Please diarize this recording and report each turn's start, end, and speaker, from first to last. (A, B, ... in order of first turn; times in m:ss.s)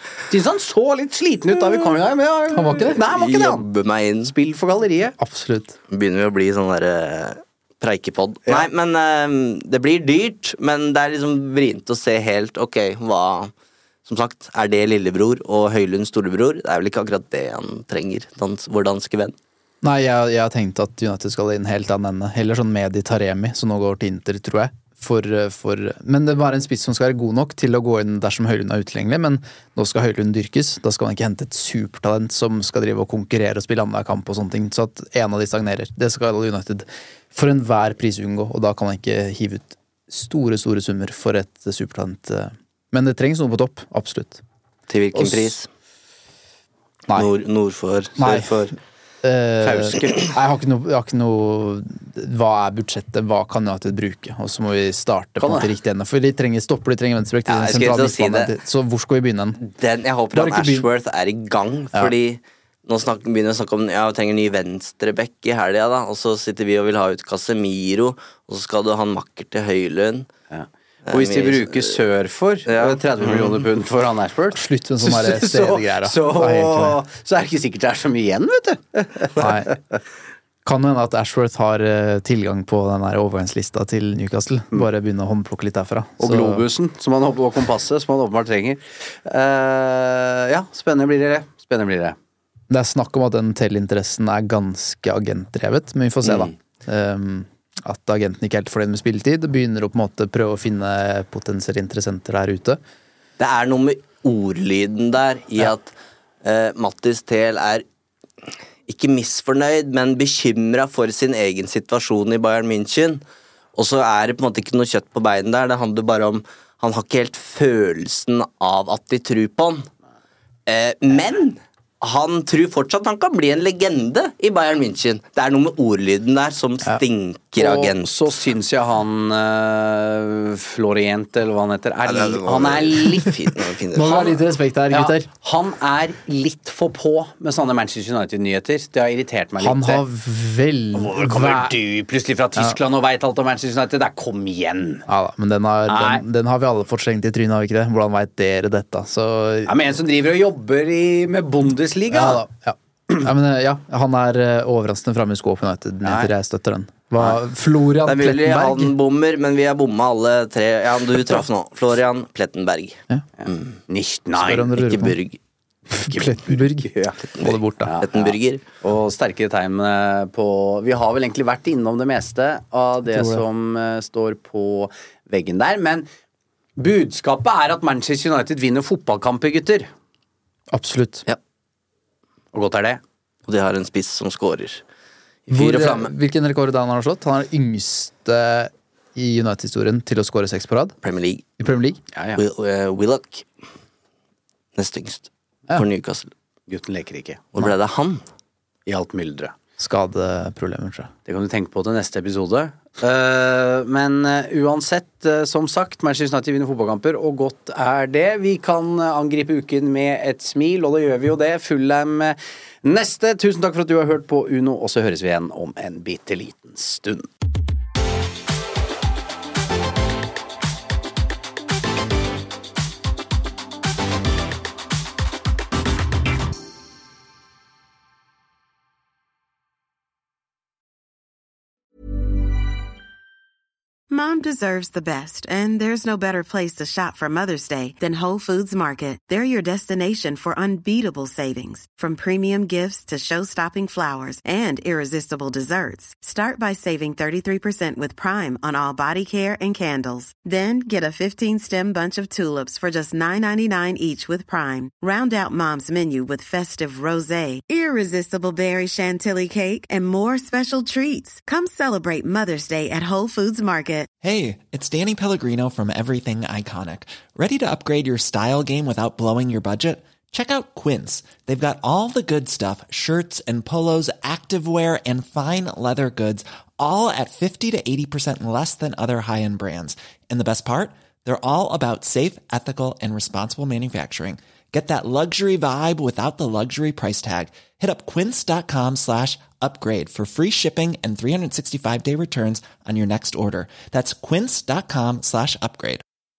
0:00.3-0:03.6 A
0:02.5-0:03.0 B
0:03.1-0:04.3 C
0:04.2-0:05.2 A
0:05.2-0:05.8 B
0:05.9-0:13.5 C
0:14.0-0:19.3 C
0:19.8-0:44.4 B
0:44.9-0:45.7 C
0:45.2-0:45.5 B
0:47.1-0:48.7 C
0:48.2-0:59.6 B
0:49.6-0:50.2 A
0:55.4-0:55.7 A
0:57.5-0:58.5 C
0:59.6-1:10.3 C
1:00.3-1:00.9 B
1:10.5-1:19.7 A
1:11.1-1:11.9 C
1:12.7-1:13.6 C
1:14.5-1:17.0 B
1:19.4-1:19.7 B
1:20.6-1:26.6 B
1:26.2-1:32.2 A
1:32.7-1:42.8 B
1:36.2-1:36.5 C
1:43.4-1:47.8 C
1:48.9-1:53.2 C
1:53.7-1:59.9 C
2:00.7-2:08.1 C
2:07.6-2:13.5 A
2:12.1-2:14.3 C
2:13.9-2:15.3 B
2:14.9-2:20.0 A
2:19.6-2:21.7 B
2:20.9-2:25.1 A
2:25.1-2:29.9 B
2:25.9-2:26.2 A
2:29.6-2:32.4 A
2:32.1-2:38.9 B
2:36.0-2:36.3 A
2:38.0-2:43.0 C
2:43.4-2:44.7 A
2:44.3-2:45.2 B
2:44.7-2:45.4 C
2:45.9-2:47.9 B
2:46.0-2:56.1 A
2:48.0-2:48.6 C
2:53.1-2:53.4 B
2:56.8-2:59.9 A
3:00.7-3:01.3 B
3:02.5-3:03.0 A
3:03.5-3:04.8 C
3:05.5-3:06.1 C
3:05.5-3:10.9 B
3:11.0-3:11.4 C
3:11.6-3:12.0 B
3:12.1-3:12.4 A
3:12.4-3:13.5 C
3:14.8-3:16.3 C
3:16.7-3:17.4 A
3:17.5-3:18.2 C
3:18.8-3:19.5 A
3:19.8-3:21.1 B
3:21.3-3:37.3 A
3:54.1-4:24.1 D
4:24.2-4:56.0 E